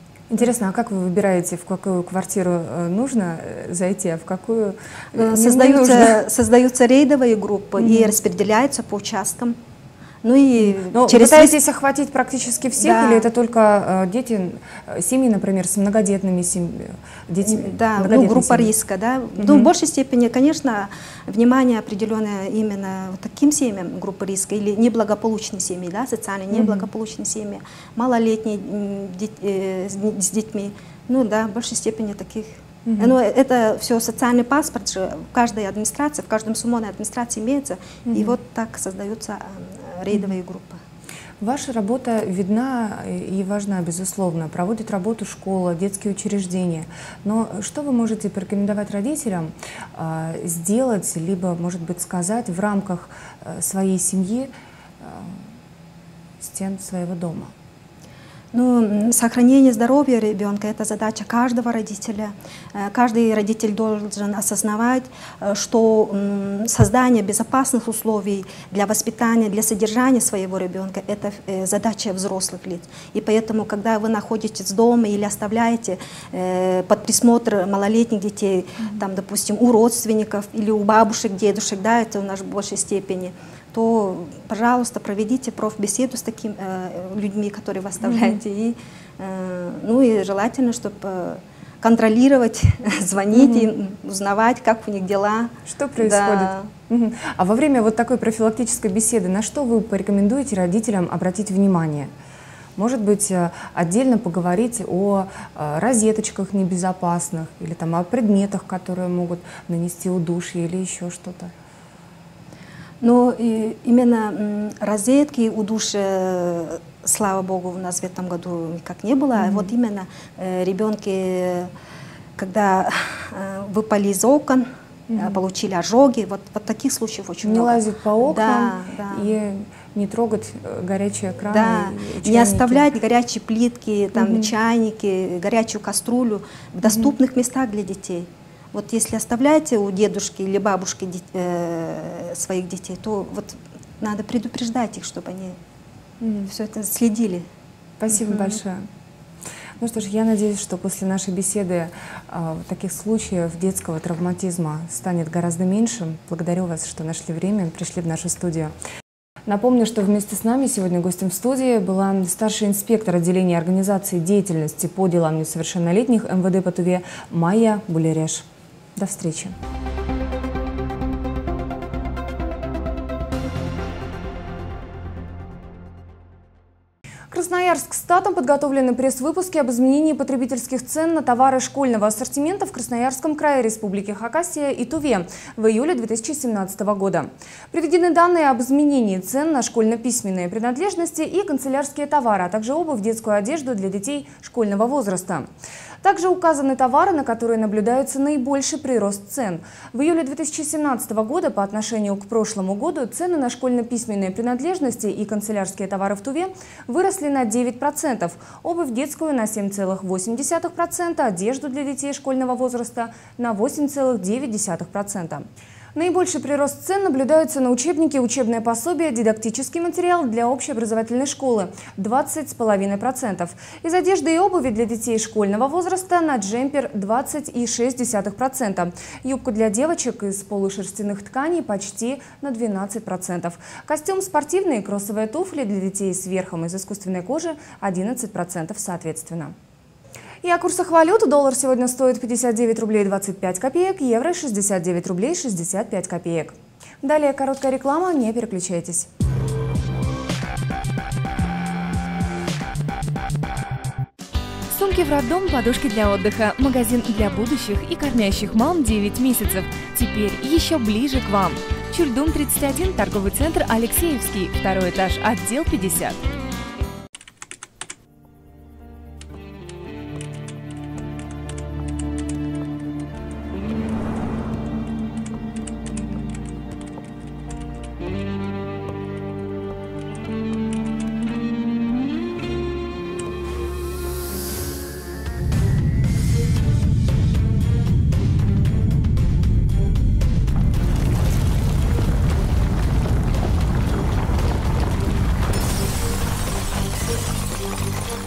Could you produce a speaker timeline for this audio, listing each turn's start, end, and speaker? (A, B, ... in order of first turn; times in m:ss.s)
0:00.3-0:06.2 A
0:05.1-0:09.6 B
0:07.8-0:08.2 A
0:10.2-0:11.6 B
0:10.6-0:18.7 A
0:12.8-0:13.3 B
0:17.4-0:40.8 B
0:19.4-0:19.7 A
0:26.5-0:26.9 A
0:32.8-0:33.2 A
0:38.1-0:38.4 A
0:41.4-0:55.4 A
0:56.4-0:57.5 A
0:58.5-1:36.7 B
1:28.0-1:28.4 A
1:33.3-1:33.7 A
1:35.6-1:42.1 A
1:42.8-1:51.5 A
1:53.0-2:01.7 B
1:59.3-1:59.7 A
2:02.4-2:09.4 B
2:05.1-2:05.4 A
2:07.4-2:12.9 A
2:11.5-2:25.6 B
2:14.2-2:14.5 A
2:16.8-2:17.1 A
2:26.2-2:26.5 A
2:26.5-2:27.4 B
2:28.0-2:28.9 A
2:28.1-2:28.6 B
2:29.8-2:38.7 A
2:39.4-2:49.5 A
2:57.3-3:15.5 A
3:16.0-3:59.5 A
4:00.4-4:09.1 A
4:14.7-4:26.2 C